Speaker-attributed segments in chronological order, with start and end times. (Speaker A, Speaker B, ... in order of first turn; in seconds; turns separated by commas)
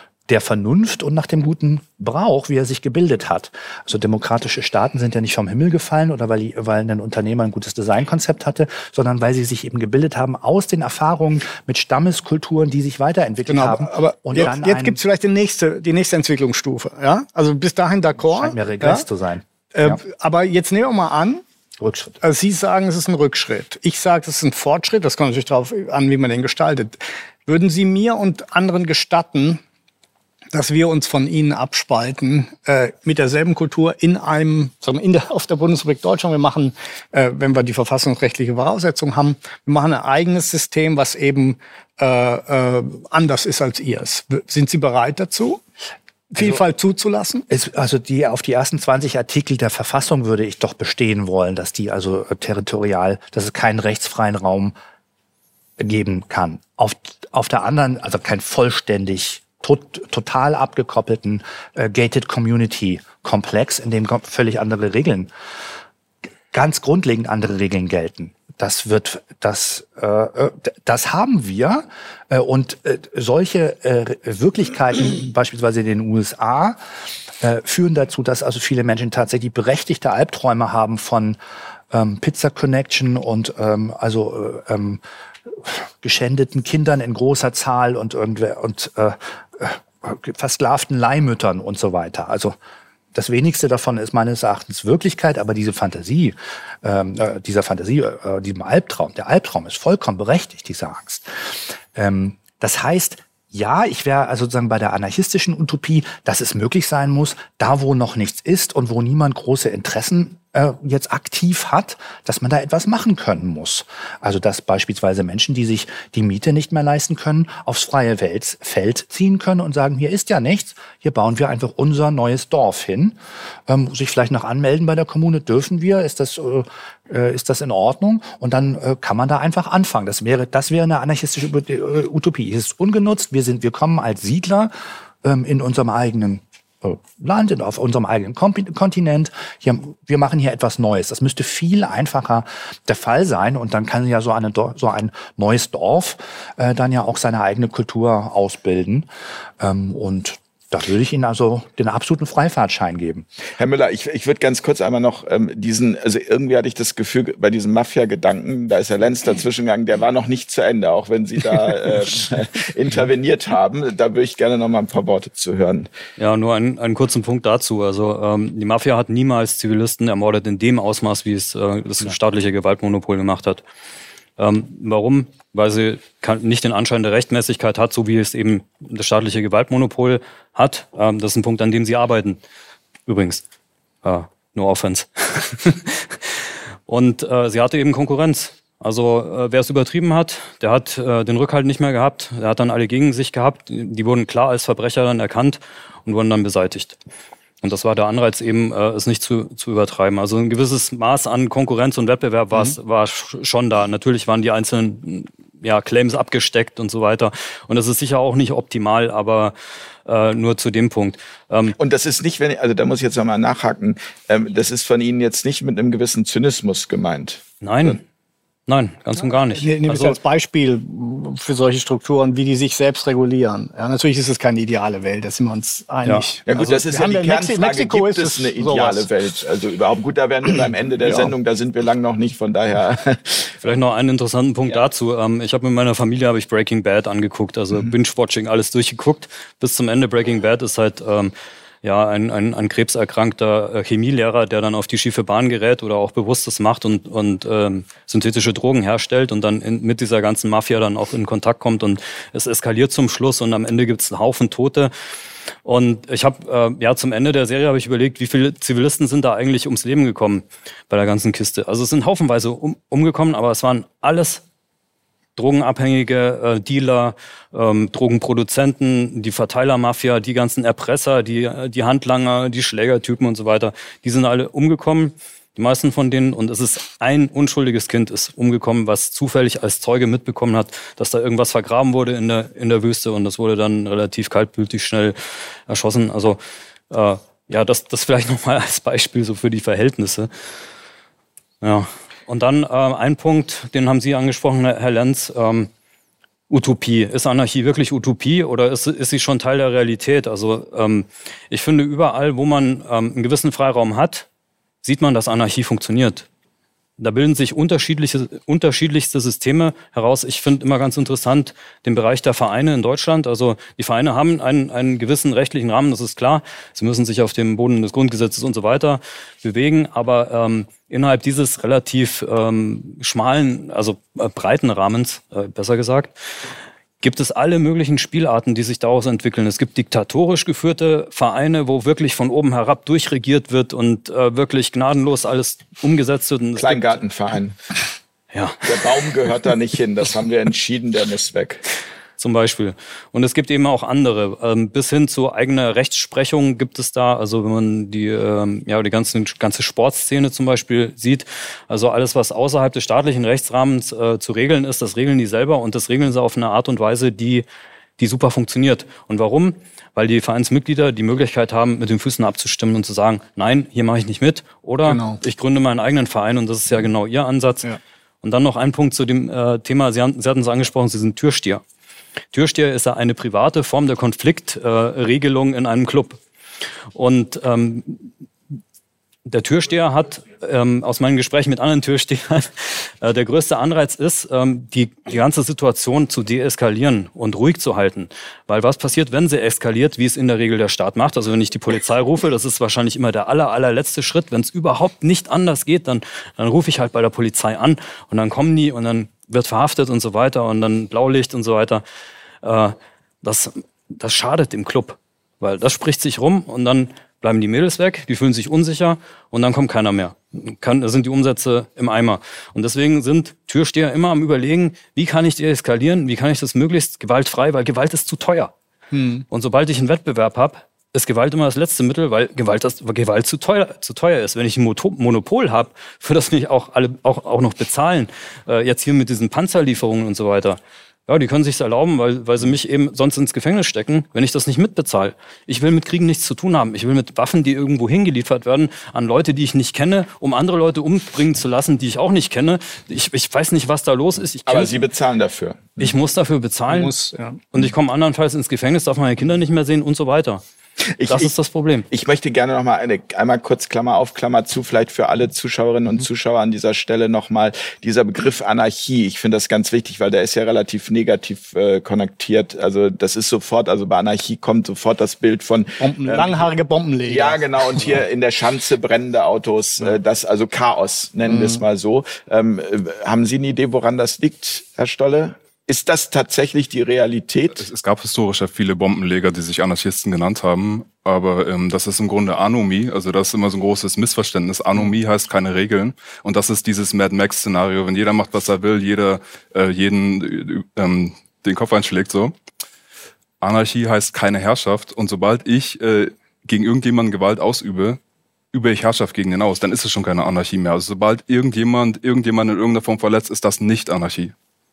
Speaker A: 0.3-15.0, Speaker B: 13.5-19.0, Speaker A: 18.3-20.0, Speaker B: 19.7-21.4, Speaker A: 21.8-22.2, Speaker B: 22.2-29.6, Speaker B: 30.5-45.6, Speaker B: 46.3-47.5, Speaker A: 47.5-54.7, Speaker A: 55.8-65.3, Speaker A: 66.5-76.8, Speaker A: 77.4-81.4, Speaker A: 81.9-92.5, Speaker A: 93.1-101.3, Speaker A: 101.9-134.7, Speaker A: 135.2-149.1, Speaker A: 149.6-153.3, Speaker C: 153.6-165.9, Speaker D: 166.2-173.6, Speaker D: 174.4-182.4, Speaker D: 183.1-183.4, Speaker D: 184.0-186.3, Speaker D: 186.9-197.0, Speaker D: 197.6-209.5, Speaker D: 210.1-211.8, Speaker C: 211.8-218.0, Speaker D: 217.6-218.0, Speaker D: 218.7-220.2, Speaker B: 219.2-229.1, Speaker D: 226.0-226.7, Speaker C: 226.4-233.6, Speaker B: 231.0-231.3, Speaker D: 233.6-241.3, Speaker D: 241.8-254.9, Speaker D: 255.6-264.4, Speaker D: 265.4-285.1, Speaker D: 285.7-290.3, Speaker D: 291.6-295.7, Speaker D: 296.5-304.3, Speaker D: 304.8-306.2, Speaker D: 307.0-326.1, Speaker D: 327.0-337.0, Speaker C: 336.6-337.6, Speaker D: 338.3-338.7, Speaker C: 338.6-341.6, Speaker D: 342.2-357.4, Speaker D: 358.0-367.7, Speaker B: 364.8-365.2, Speaker D: 368.2-371.6, Speaker D: 372.3-376.2, Speaker D: 376.9-378.1, Speaker D: 379.3-401.8, Speaker D: 402.4-418.5, Speaker B: 418.9-419.2, Speaker D: 419.3-444.8, Speaker C: 444.5-445.9, Speaker D: 445.8-446.9, Speaker B: 446.7-447.4, Speaker D: 447.5-450.4, Speaker C: 450.9-451.3, Speaker D: 451.0-451.9, Speaker C: 451.9-466.5, Speaker B: 465.8-468.0, Speaker C: 467.1-477.6, Speaker B: 471.2-471.6, Speaker E: 477.6-492.3, Speaker E: 493.4-498.0, Speaker E: 498.5-504.3